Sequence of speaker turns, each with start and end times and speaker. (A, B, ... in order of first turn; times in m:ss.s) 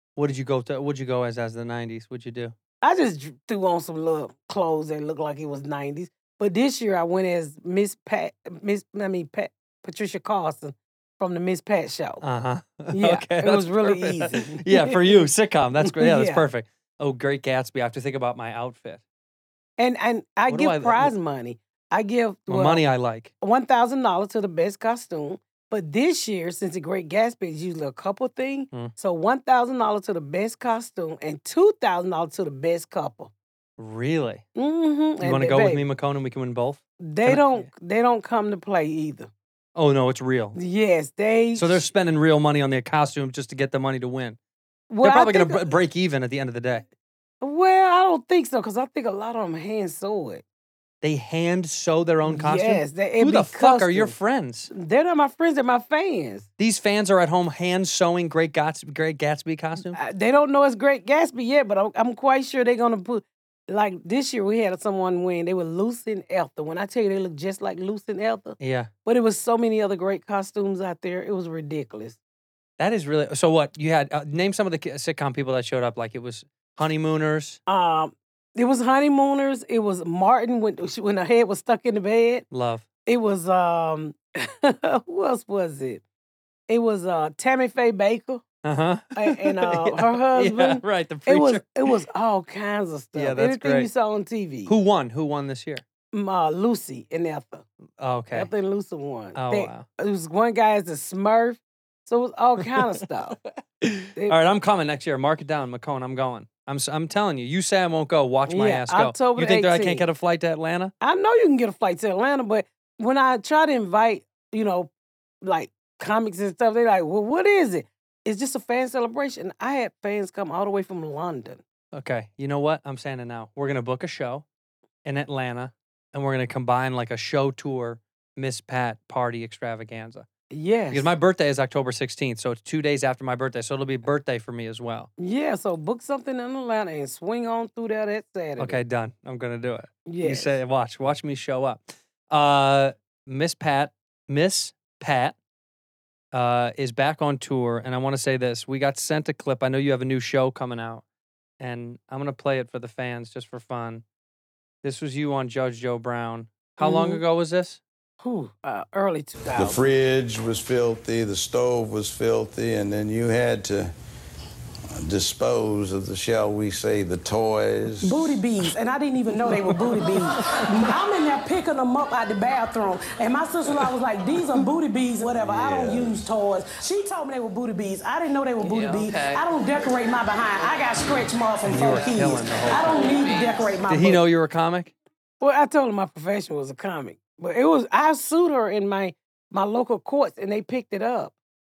0:00.2-0:02.6 A
0:02.8-0:12.2 B
0:12.2-0:19.0 A
0:12.9-0:15.2 B
0:15.8-0:16.4 B
0:19.8-0:22.8 B
0:20.5-0:21.1 A
0:22.5-0:23.3 A
0:23.4-0:33.3 B
0:33.8-0:34.4 A
0:34.6-0:35.9 B
0:35.2-0:37.7 A
0:37.0-0:39.3 B
0:39.8-0:40.6 A
0:40.6-0:41.9 B
0:41.6-0:44.4 A
0:44.9-0:45.7 B
0:45.0-0:46.9 A
0:47.4-0:50.4 B
0:51.0-0:54.7 A
0:52.3-0:54.2 B
0:54.7-0:56.5 B
0:56.6-1:00.0 A
0:59.9-1:12.2 B
1:08.6-1:08.9 A
1:12.8-1:17.6 A
1:17.7-1:22.5 B
1:22.5-1:22.9 A
1:23.1-1:26.0 B
1:26.7-1:28.4 B
1:28.6-1:31.9 A
1:29.2-1:34.7 B
1:33.2-1:33.9 A
1:34.7-1:35.8 A
1:36.1-1:37.6 B
1:38.0-1:38.5 A
1:38.3-1:43.4 B
1:39.3-1:39.8 A
1:42.6-1:43.0 A
1:43.8-1:50.9 A
1:48.5-1:50.0 B
1:51.0-1:54.9 B
1:55.4-2:01.6 B
2:01.9-2:04.5 A
2:05.0-2:10.3 A
2:10.5-2:11.1 B
2:10.9-2:15.1 A
2:15.2-2:18.8 B
2:18.6-2:25.4 A
2:20.1-2:20.6 B
2:26.3-2:31.0 A
2:31.6-2:34.0 A
2:34.8-2:37.8 A
2:36.8-2:37.2 B
2:38.2-2:39.9 B
2:39.6-2:43.9 C
2:45.0-2:48.4 C
2:48.0-3:04.2 B
2:55.4-2:56.3 C
2:58.7-2:59.4 A
3:01.6-3:03.3 A
3:03.9-3:04.9 A
3:05.4-3:11.3 B